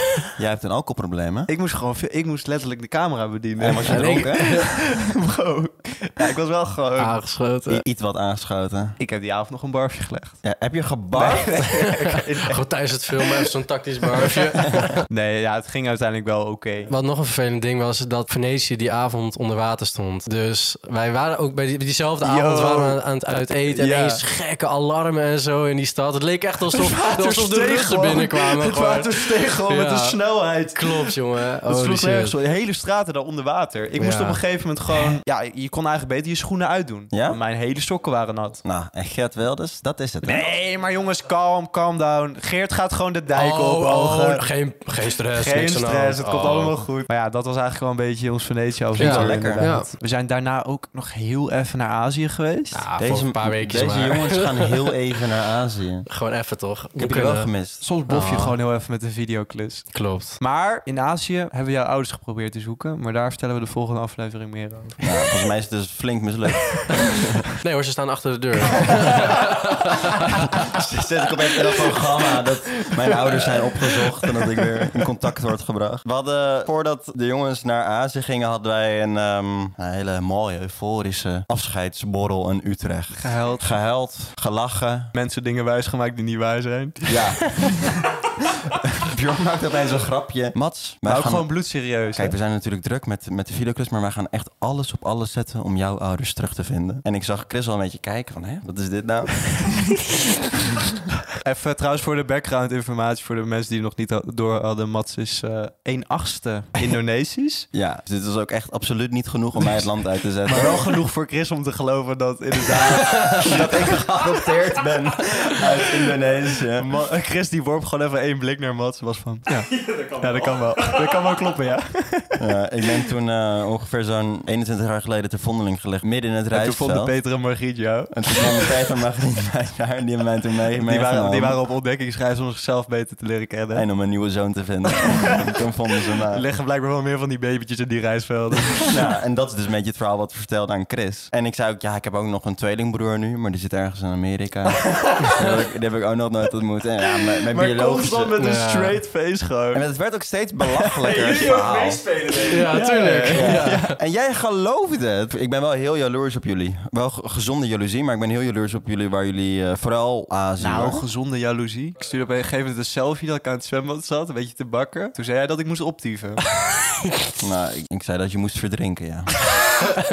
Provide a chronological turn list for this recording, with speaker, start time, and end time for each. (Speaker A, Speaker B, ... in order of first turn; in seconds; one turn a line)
Speaker A: 0.4-1.5
Speaker B: 1.5-7.3
Speaker A: 3.6-4.6
Speaker C: 3.8-4.7
Speaker C: 7.0-7.8
Speaker A: 7.7-9.0
Speaker B: 9.0-10.4
Speaker A: 10.4-11.6
Speaker B: 11.1-12.7
Speaker C: 12.4-15.0
Speaker B: 13.2-13.5
Speaker B: 14.2-16.9
Speaker C: 16.9-32.4
Speaker B: 22.2-23.0
Speaker B: 23.7-24.2
Speaker B: 26.7-38.6
Speaker C: 34.0-34.4
Speaker A: 37.1-37.4
Speaker A: 38.6-40.5
Speaker B: 40.2-44.5
Speaker C: 43.3-46.8
Speaker B: 45.3-52.9
Speaker A: 49.0-49.7
Speaker C: 49.0-49.9
Speaker C: 52.7-54.9
Speaker A: 52.9-56.0
Speaker C: 56.1-57.5
Speaker A: 57.0-57.8
Speaker B: 57.8-65.0
Speaker C: 58.0-58.6
Speaker C: 59.9-60.4
Speaker A: 65.0-67.4
Speaker C: 67.6-70.4
Speaker A: 70.4-85.1
Speaker B: 83.1-83.8
Speaker B: 85.1-88.0
Speaker A: 87.1-88.0
Speaker A: 88.7-91.5
Speaker B: 91.0-92.3
Speaker A: 92.1-101.0
Speaker B: 101.4-107.7
Speaker A: 107.7-111.0
Speaker B: 110.4-114.5
Speaker A: 112.9-116.9
Speaker B: 116.8-122.4
Speaker A: 122.4-127.2
Speaker B: 126.5-128.8
Speaker A: 128.1-131.6
Speaker B: 130.8-133.8
Speaker A: 133.7-136.4
Speaker B: 135.0-135.5
Speaker B: 136.3-138.9
Speaker A: 138.8-148.3
Speaker B: 144.8-145.4
Speaker B: 147.5-149.8
Speaker C: 148.4-149.0
Speaker A: 149.7-152.1
Speaker B: 150.9-153.9
Speaker C: 152.4-153.9
Speaker A: 153.3-161.1
Speaker B: 160.6-166.5
Speaker A: 167.4-169.5